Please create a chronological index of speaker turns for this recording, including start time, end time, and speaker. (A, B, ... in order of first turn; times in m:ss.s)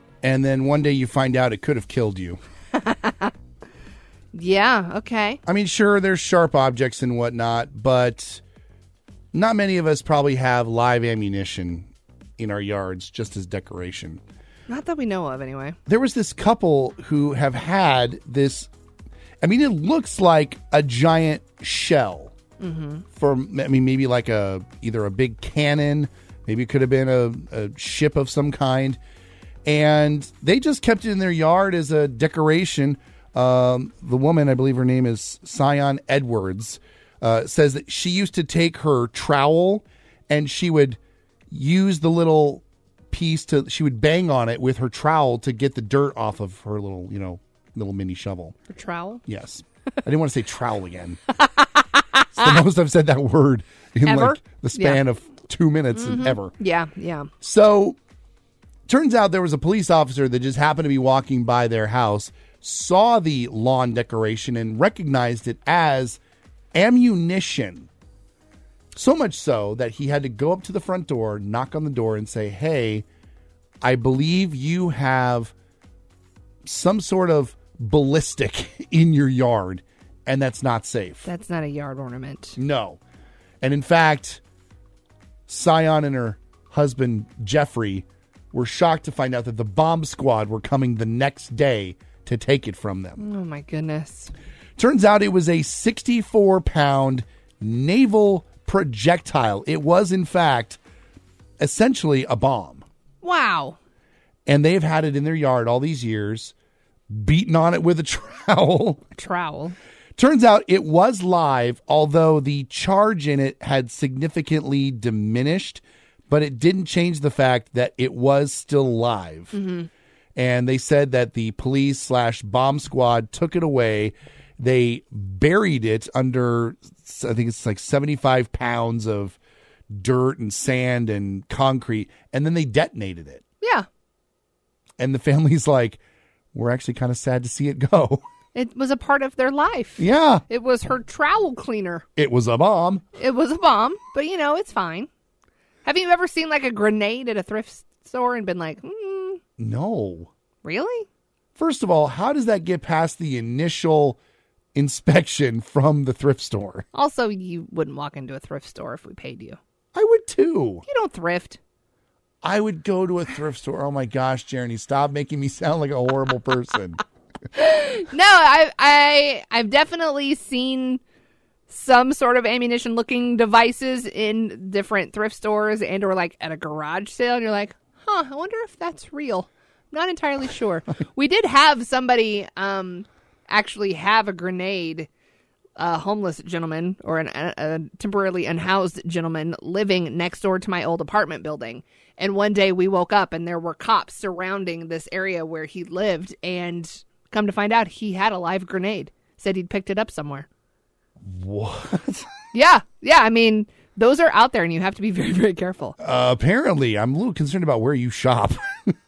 0:00.2-0:02.4 A
0:02.8-0:03.3 B
0:04.3-0:05.4 B
0:05.4-0:08.4 A
0:09.3-0:14.2 A
0:14.7-0:15.8 B
0:15.9-0:18.7 A
0:19.4-0:22.3 A
0:22.6-0:23.0 B
0:23.1-0:29.0 A
0:29.6-0:41.0 A
0:41.5-0:48.5 A
0:48.7-0:49.2 B
0:49.3-0:51.2 A
0:52.4-0:56.5 A
0:54.0-0:55.0 B
0:55.9-0:57.3 B
0:57.4-0:58.0 A
0:58.9-1:06.2 A
1:06.7-1:07.9 A
1:09.0-1:13.0 A
1:13.8-1:15.5 A
1:16.6-1:21.3 A
1:21.2-1:22.6 B
1:22.6-1:23.0 A
1:23.6-1:24.4 A
1:25.5-1:33.2 A
1:33.2-1:34.3 B
1:34.8-1:40.8 A
1:41.6-1:42.8 A
1:43.2-1:43.8 B
1:44.5-1:46.5 A
1:47.1-1:49.0 A
1:49.1-1:49.7 B
1:50.2-1:59.6 A
1:59.5-1:59.9 B
2:00.4-2:09.4 A
2:09.9-2:13.4 A
2:13.6-2:13.8 B
2:15.0-2:16.0 A
2:16.5-2:18.2 A
2:18.5-2:22.0 B
2:20.0-2:20.4 A
2:22.2-2:23.0 A
2:23.2-2:25.1 B
2:25.8-2:29.4 B
2:29.6-2:30.3 A
2:30.6-2:31.1 B
2:31.6-2:34.2 A
2:34.7-2:36.8 A
2:36.9-2:39.6 B
2:39.9-2:40.8 A
2:40.8-2:41.6 B
2:42.4-2:47.0 A
2:47.5-2:51.0 B
2:51.7-3:05.1 B
3:05.8-3:20.5 B
3:21.2-3:22.3 A
3:22.5-3:26.0 B
3:26.0-3:28.7 A